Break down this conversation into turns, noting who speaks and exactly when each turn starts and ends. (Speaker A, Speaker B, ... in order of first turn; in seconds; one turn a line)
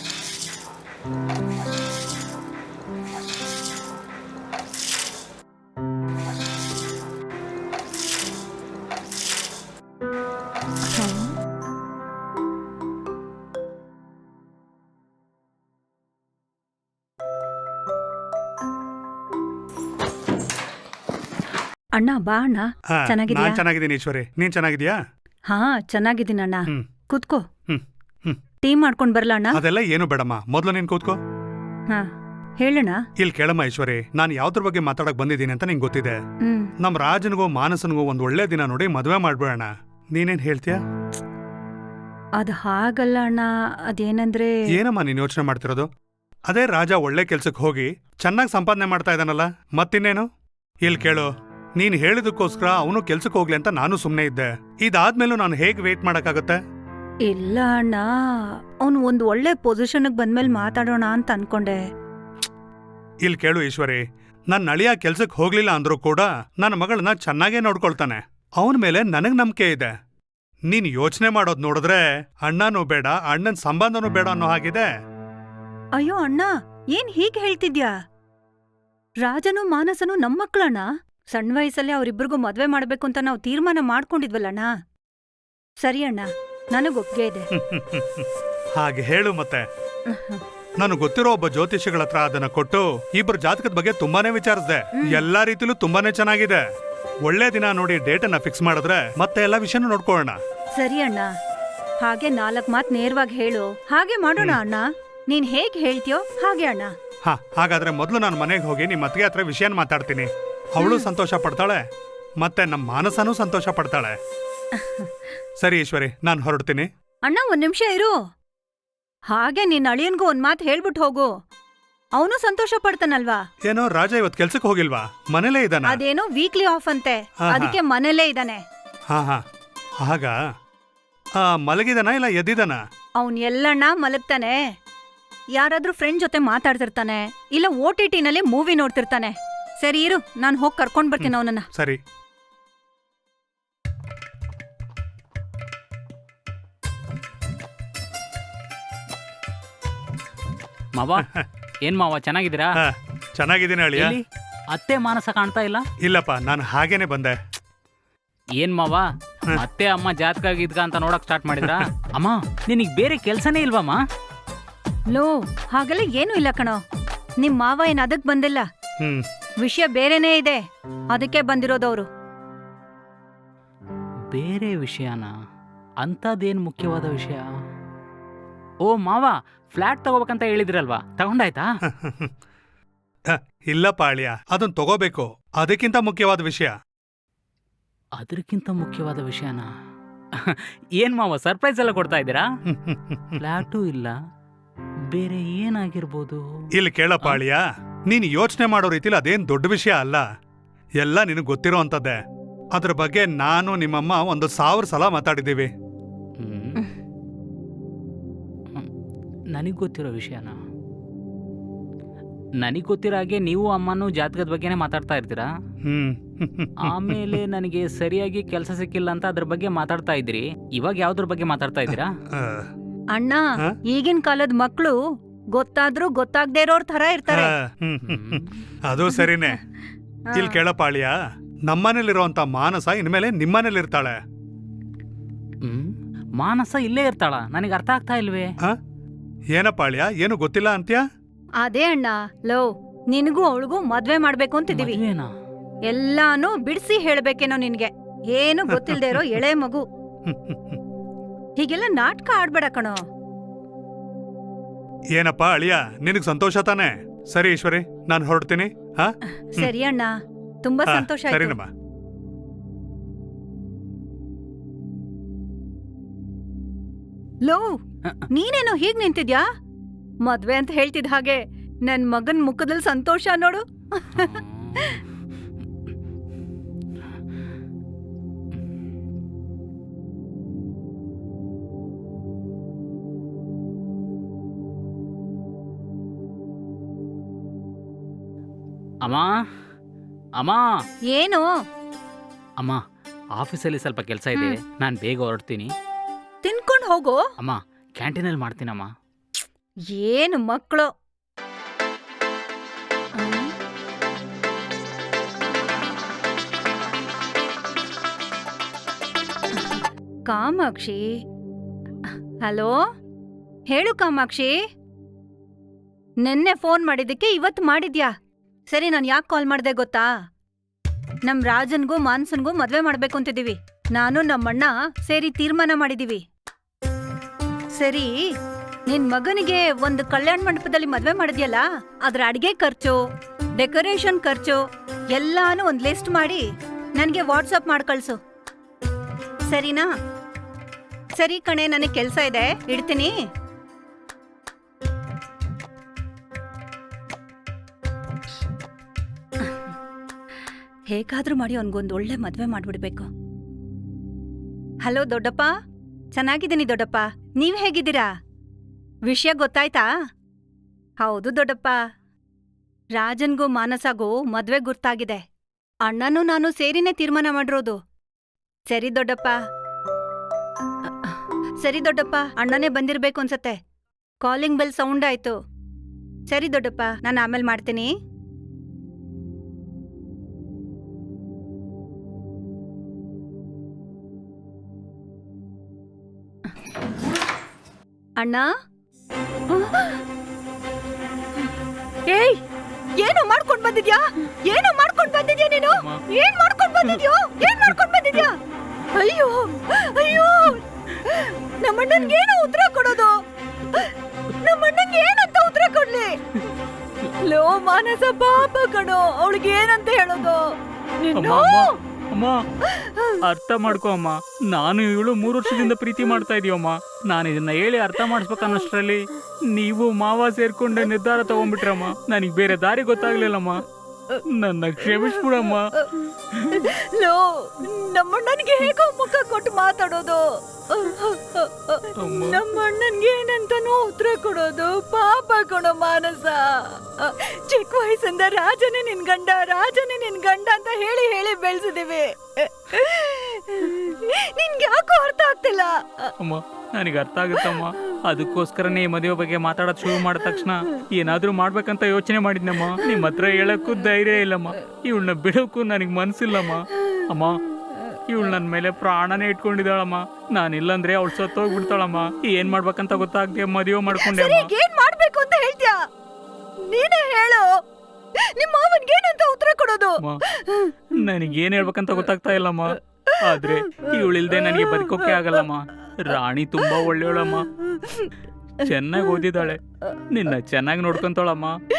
Speaker A: 10.9-11.3
Speaker A: 22.0-23.6
Speaker B: 22.9-25.0
Speaker A: 25.5-27.4
Speaker B: 27.7-28.4
Speaker A: 28.6-29.6
Speaker B: 29.5-31.2
Speaker A: 32.6-33.0
Speaker B: 33.2-36.2
Speaker A: 36.5-36.7
Speaker B: 36.8-40.8
Speaker A: 42.4-44.6
Speaker B: 44.7-45.9
Speaker B: 46.5-50.3
Speaker B: 50.8-56.6
Speaker A: 57.3-61.8
Speaker B: 63.2-69.9
Speaker B: 70.7-74.9
Speaker A: 76.0-77.9
Speaker A: 79.2-84.7
Speaker A: 85.8-87.5
Speaker B: 87.5-88.3
Speaker B: 88.8-89.7
Speaker A: 90.1-90.4
Speaker B: 90.8-96.6
Speaker A: 95.0-95.2
Speaker B: 97.2-100.4
Speaker A: 100.8-101.3
Speaker A: 102.0-106.9
Speaker B: 107.2-111.8
Speaker A: 110.8-111.1
Speaker B: 112.4-114.2
Speaker A: 114.8-115.1
Speaker B: 115.6-116.9
Speaker A: 117.3-118.1
Speaker A: 119.3-121.3
Speaker A: 122.2-123.4
Speaker B: 123.7-126.0
Speaker A: 125.9-128.6
Speaker B: 127.5-127.8
Speaker B: 129.1-129.4
Speaker B: 130.0-130.4
Speaker B: 131.4-132.8
Speaker A: 133.2-134.6
Speaker A: 135.6-141.7
Speaker B: 141.2-142.0
Speaker C: 150.9-151.3
Speaker B: 151.2-151.5
Speaker C: 151.8-152.8
Speaker B: 152.8-154.2
Speaker C: 154.0-155.8
Speaker B: 156.0-157.4
Speaker C: 158.6-164.0
Speaker A: 165.1-166.8
Speaker A: 167.4-168.7
Speaker A: 169.6-170.6
Speaker A: 171.1-172.1
Speaker C: 174.3-175.3
Speaker C: 176.0-177.4
Speaker C: 178.9-181.7
Speaker B: 181.9-182.3
Speaker B: 183.3-186.7
Speaker C: 188.2-189.7
Speaker C: 190.4-192.4
Speaker B: 192.7-193.4
Speaker C: 193.4-194.2
Speaker C: 195.1-196.4
Speaker B: 196.7-200.2
Speaker B: 201.0-202.2
Speaker B: 202.7-205.7
Speaker C: 206.4-206.8
Speaker C: 209.5-210.6
Speaker C: 212.6-215.5
Speaker B: 215.8-217.4
Speaker C: 216.8-222.1
Speaker B: 222.3-222.7
Speaker A: 223.2-225.0
Speaker A: 225.5-227.5
Speaker B: 227.3-229.6
Speaker C: 228.1-228.6
Speaker A: 230.3-230.6
Speaker B: 230.3-234.2
Speaker C: 236.4-238.5
Speaker B: 239.5-241.0
Speaker A: 241.6-245.0
Speaker C: 244.7-245.3
Speaker A: 245.9-249.8
Speaker B: 248.7-249.2
Speaker B: 250.3-250.8
Speaker A: 251.6-253.0
Speaker B: 255.2-259.7
Speaker A: 259.4-260.1
Speaker A: 260.6-261.6
Speaker B: 260.9-261.7
Speaker A: 268.3-269.4
Speaker A: 270.2-275.0
Speaker C: 274.1-275.0
Speaker A: 291.1-291.5
Speaker C: 293.4-295.7
Speaker A: 296.4-297.2
Speaker C: 297.4-298.9
Speaker A: 299.9-300.9
Speaker A: 303.2-303.5
Speaker A: 309.6-311.0
Speaker A: 312.4-312.8
Speaker A: 313.7-314.6
Speaker A: 316.2-318.1
Speaker A: 318.7-320.1
Speaker A: 321.3-326.2
Speaker A: 327.8-328.1
Speaker A: 328.9-333.0
Speaker A: 333.6-336.4
Speaker A: 337.0-338.2
Speaker A: 339.5-339.9
Speaker A: 341.1-343.1
Speaker A: 350.9-353.1
Speaker A: 354.8-355.5
Speaker A: 356.1-358.1
Speaker A: 359.1-359.9
Speaker A: 361.0-361.8
Speaker A: 363.0-365.2
Speaker A: 365.9-367.8
Speaker A: 368.7-369.4
Speaker A: 371.0-373.6
Speaker A: 374.2-375.4
Speaker A: 376.3-377.9
Speaker A: 388.2-388.5
Speaker A: 389.5-390.0
Speaker A: 392.1-392.4
Speaker A: 393.0-398.4
Speaker A: 398.9-403.2
Speaker A: 403.7-406.2
Speaker A: 407.2-411.8
Speaker D: 411.2-412.4
Speaker A: 412.7-413.2
Speaker D: 413.2-416.8
Speaker C: 417.1-418.7
Speaker D: 417.3-419.0
Speaker D: 419.6-423.6
Speaker D: 424.4-425.6
Speaker A: 425.8-446.1
Speaker D: 426.4-426.6
Speaker D: 432.0-432.4
Speaker D: 446.2-457.4
Speaker A: 447.3-447.9
Speaker C: 448.2-450.5
Speaker D: 458.1-464.5
Speaker A: 463.9-465.8
Speaker A: 466.6-467.5
Speaker A: 468.2-470.8
Speaker D: 470.9-477.5
Speaker A: 473.3-473.6
Speaker C: 473.9-475.5
Speaker A: 474.7-475.2
Speaker A: 477.7-478.1
Speaker D: 478.6-479.6
Speaker D: 480.1-481.6